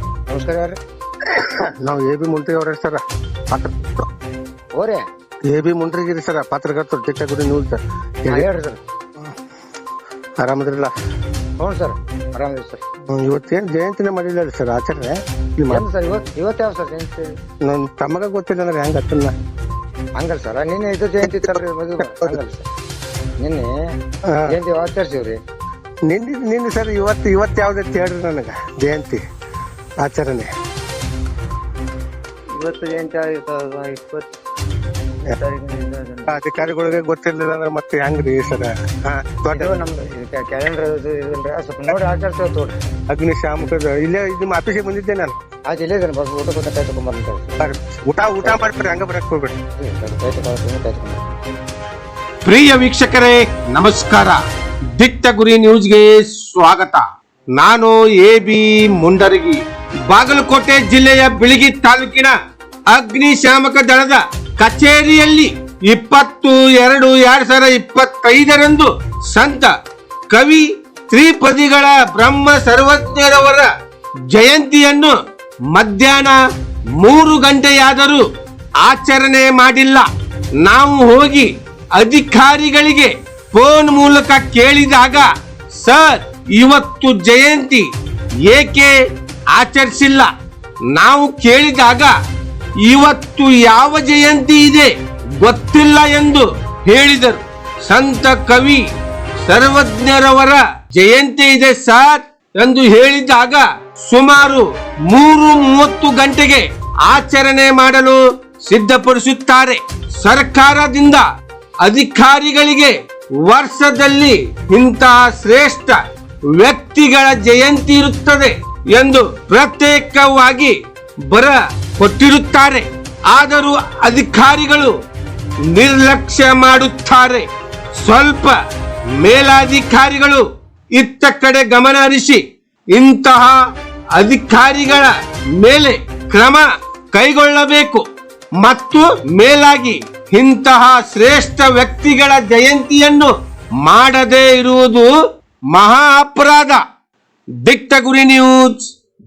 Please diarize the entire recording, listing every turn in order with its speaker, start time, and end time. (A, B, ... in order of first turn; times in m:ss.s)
0:00.3-0:00.8 A
0:01.3-0:03.9 B
0:04.8-0:05.0 A
0:05.4-0:08.5 B
0:08.3-0:08.8 A
0:10.4-0:10.9 B
0:11.6-0:12.8 A
0:13.1-0:15.8 B
0:15.7-0:17.3 A
0:17.6-0:19.4 B
0:20.2-0:22.7 A
0:21.2-0:22.4 B
0:23.4-0:23.9 A
0:24.2-0:24.6 B
0:24.5-0:25.4 A
0:26.0-0:29.2 B
0:30.0-0:30.5 B
0:32.6-0:34.2 A
0:35.4-0:36.4 A
0:36.3-0:39.8 B
0:39.5-0:42.8 A
0:43.1-0:45.4 B
0:45.7-0:47.6 A
0:47.6-0:49.6 B
0:49.8-0:51.4 A
0:52.4-0:54.4 C
0:55.0-0:57.0 C
0:57.6-1:02.4 C
1:02.9-1:09.7 C
1:10.3-1:13.7 C
1:14.3-1:15.1 C
1:15.7-1:16.4 C
1:17.0-1:18.3 C
1:18.8-1:20.1 C
1:20.6-1:27.9 C
1:28.4-1:29.0 C
1:29.5-1:30.3 C
1:30.9-1:32.2 C
1:32.8-1:38.8 C
1:39.4-1:51.2 C
1:51.8-1:56.0 C
1:56.5-2:00.8 C
2:01.3-2:04.9 C
2:05.7-2:07.5 C
2:08.0-2:08.6 C
2:09.2-2:12.4 C
2:12.9-2:13.5 C
2:14.2-2:18.0 C
2:18.6-2:23.3 C
2:23.8-2:25.1 C
2:25.7-2:26.8 C
2:27.6-2:28.8 C